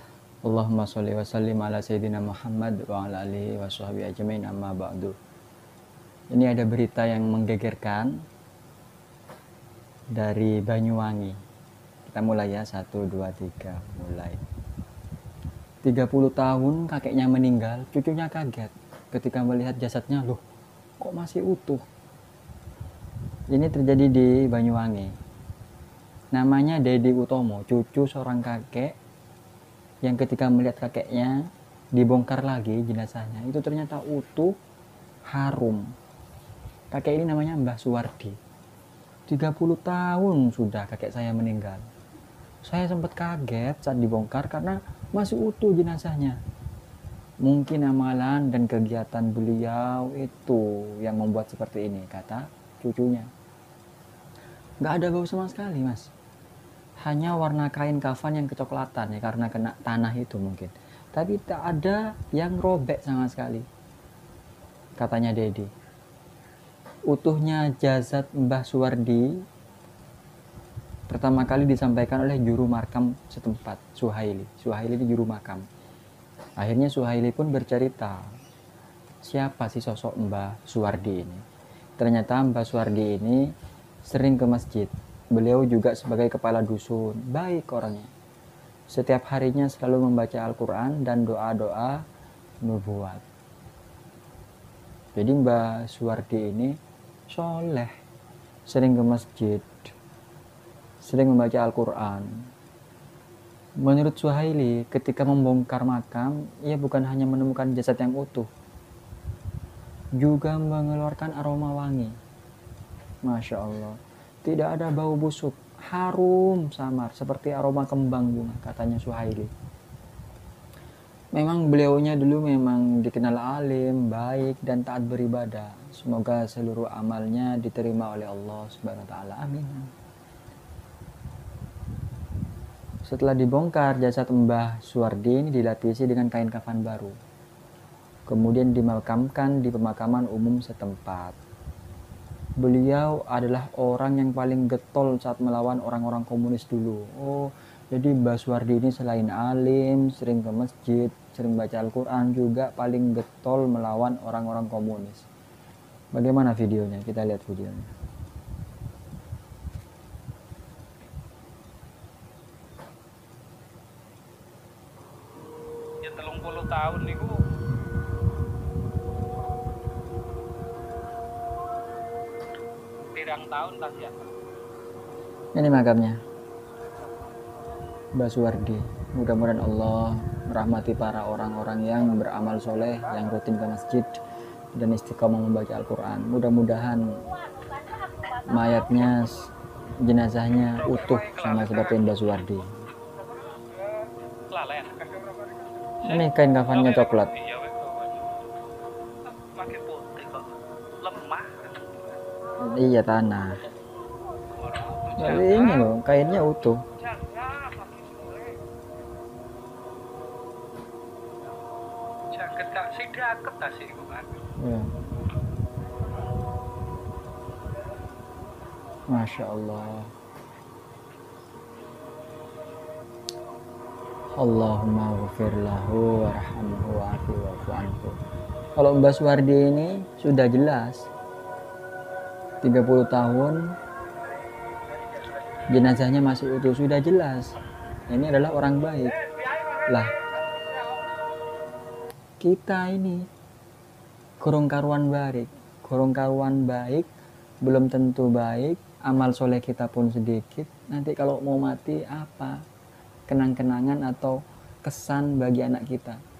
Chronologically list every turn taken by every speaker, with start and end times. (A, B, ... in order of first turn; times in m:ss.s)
0:00.4-0:05.2 A
0:06.3-0:08.2 A
0:10.2-0:11.4 A
0:12.0-0:14.4 A
0:15.8-0:20.4 A
0:21.0-0:21.8 A
0:23.5-0:25.1 A
0:26.3-0:29.0 A
0:30.0-0:34.6 A
0:35.3-0:35.9 A
0:36.9-0:38.4 A
0:39.3-0:41.8 A
0:42.6-0:46.4 A
0:47.4-0:53.3 A
0:54.8-0:56.1 A
0:57.0-1:03.7 A
1:05.0-1:05.7 A
1:07.1-1:09.4 A
1:11.1-1:15.7 A
1:16.6-1:18.3 A
1:19.2-1:21.4 A
1:22.0-1:23.5 A
1:24.1-1:28.1 A
1:28.9-1:32.0 A
1:32.6-1:33.2 A
1:35.2-1:36.8 A
1:37.3-1:37.9 A
1:38.7-1:39.9 A
1:41.0-1:42.5 A
1:43.8-1:48.5 A
1:50.2-1:52.2 A
1:53.2-1:59.5 A
2:01.3-2:09.9 A
2:13.0-2:17.2 A
2:18.3-2:21.4 A
2:22.6-2:35.3 A
2:36.1-2:37.9 A
2:46.0-2:47.4 B
2:53.1-2:54.3 B
2:55.6-2:56.2 A
2:58.2-3:04.2 A
3:04.8-3:07.2 A
3:08.3-3:12.8 A
3:10.8-3:12.0 B
3:13.8-3:18.2 B
3:16.0-3:17.3 A
3:19.3-3:22.0 B
3:22.6-3:23.6 A
3:24.5-3:25.9 B
3:25.2-3:26.8 A
3:27.0-3:28.6 B
3:32.3-3:34.4 B
3:34.6-3:34.9 A
3:39.1-3:40.1 A
3:44.3-3:48.2 A
3:48.8-3:51.0 A
3:52.6-3:53.7 A
3:55.7-3:57.5 A
3:58.1-3:59.2 A
3:59.8-4:00.2 A
4:02.4-4:03.2 A
4:04.4-4:07.1 A
4:07.6-4:12.6 A
4:13.3-4:16.2 A